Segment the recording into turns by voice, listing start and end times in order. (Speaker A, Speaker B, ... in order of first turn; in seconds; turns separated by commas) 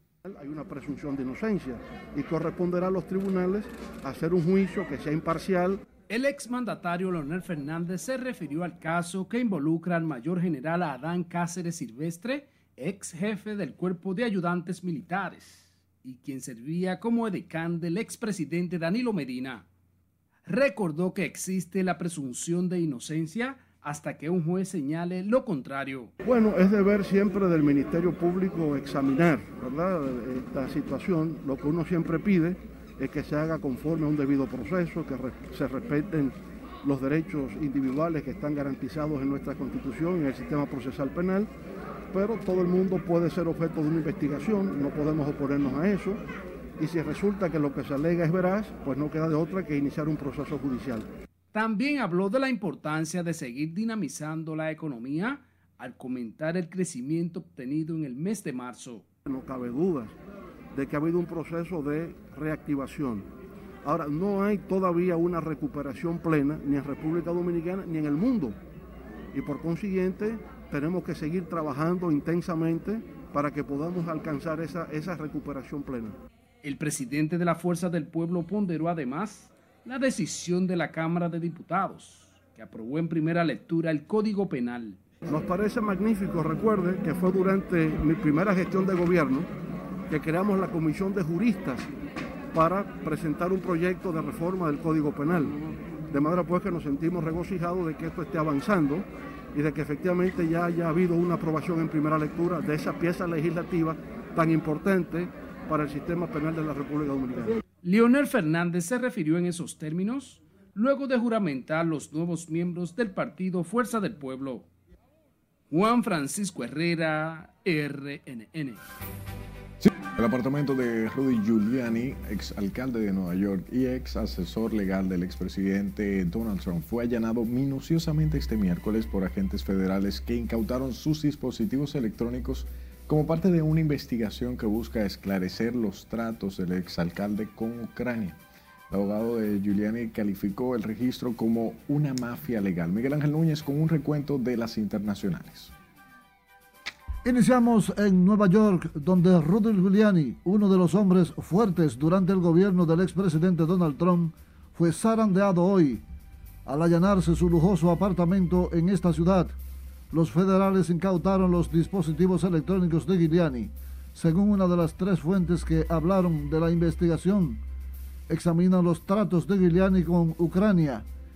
Speaker A: 0.2-5.8, Speaker B: 6.1-19.7, Speaker B: 20.5-26.1, Speaker A: 26.2-41.5, Speaker A: 42.1-46.2, Speaker A: 46.8-51.1, Speaker B: 51.5-59.0, Speaker A: 59.3-60.1, Speaker A: 60.7-63.3, Speaker A: 63.9-68.6, Speaker A: 69.3-76.2, Speaker B: 76.6-85.0, Speaker A: 85.3-89.5, Speaker A: 90.1-91.9, Speaker A: 92.5-107.6, Speaker B: 107.8-114.7, Speaker B: 115.7-118.8, Speaker C: 119.8-138.4, Speaker C: 138.9-145.7, Speaker D: 147.2-156.0, Speaker D: 156.7-159.6, Speaker D: 160.1-167.6, Speaker D: 168.3-171.1